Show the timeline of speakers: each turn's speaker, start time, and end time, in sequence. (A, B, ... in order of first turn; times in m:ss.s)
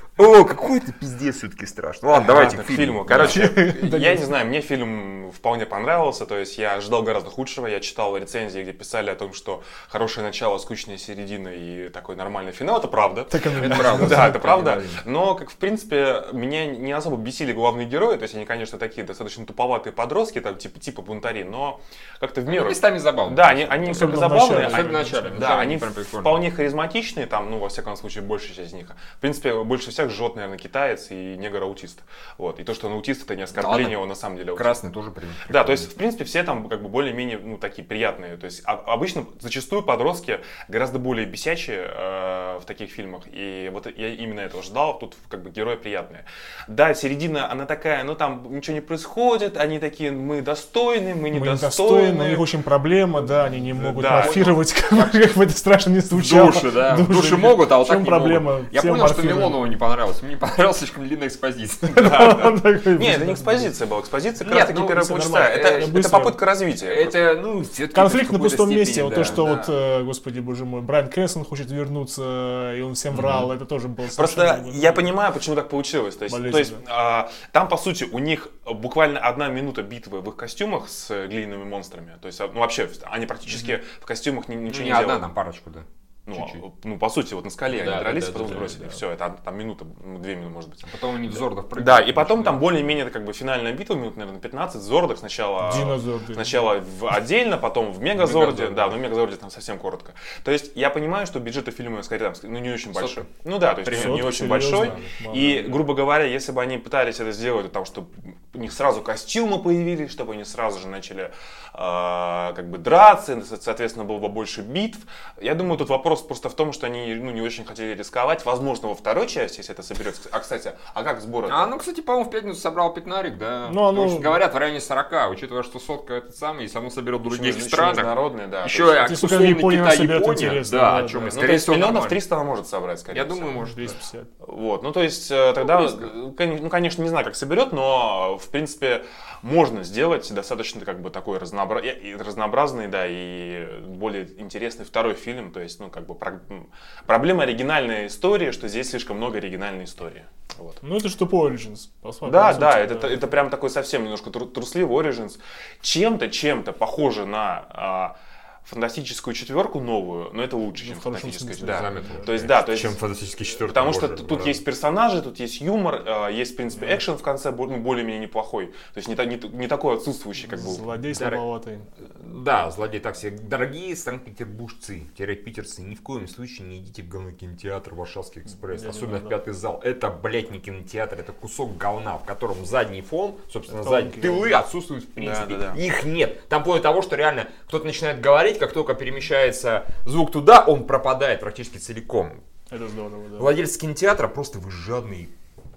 0:00.2-0:03.5 A
0:02.1-0:34.8 B
0:03.2-0:04.3 C
0:13.3-0:14.4 C
0:13.6-0:15.0 A
0:22.5-0:26.4 A
0:23.8-0:25.5 C
0:33.5-0:34.0 A
0:34.5-0:35.9 A
0:35.5-0:52.4 B
0:51.3-0:59.6 C
0:53.7-0:54.6 B
0:54.1-0:54.5 A
0:56.1-1:02.5 A
1:01.9-1:03.7 C
1:02.0-1:07.1 B
1:04.4-1:05.9 A
1:04.7-1:06.4 C
1:06.8-1:09.5 A
1:07.9-1:15.1 C
1:09.2-1:09.7 B
1:13.1-1:13.5 A
1:14.1-1:25.2 B
1:16.3-1:16.8 C
1:23.5-1:23.8 C
1:24.7-1:26.6 A
1:26.3-2:01.7 B
1:27.7-1:28.9 A
1:30.8-1:32.9 A
1:35.6-1:36.6 C
1:38.2-1:39.0 A
1:42.9-1:43.3 A
1:43.8-1:45.0 A
1:43.9-1:45.8 C
2:01.4-2:08.1 A
2:03.6-2:04.4 C
2:07.2-2:09.0 B
2:08.6-2:12.2 A
2:09.0-2:11.4 C
2:11.3-2:13.5 B
2:13.1-2:13.9 A
2:13.6-2:14.3 C
2:14.4-2:30.8 B
2:30.8-2:33.3 C
2:32.2-2:50.8 B
2:40.8-2:42.3 C
2:41.6-2:44.6 A
2:50.4-2:51.9 C
2:51.1-2:51.4 A
2:52.2-3:12.4 A
2:58.6-2:59.4 C
3:03.7-3:04.5 C
3:05.2-3:05.8 B
3:12.7-3:13.5 C
3:13.4-3:15.3 A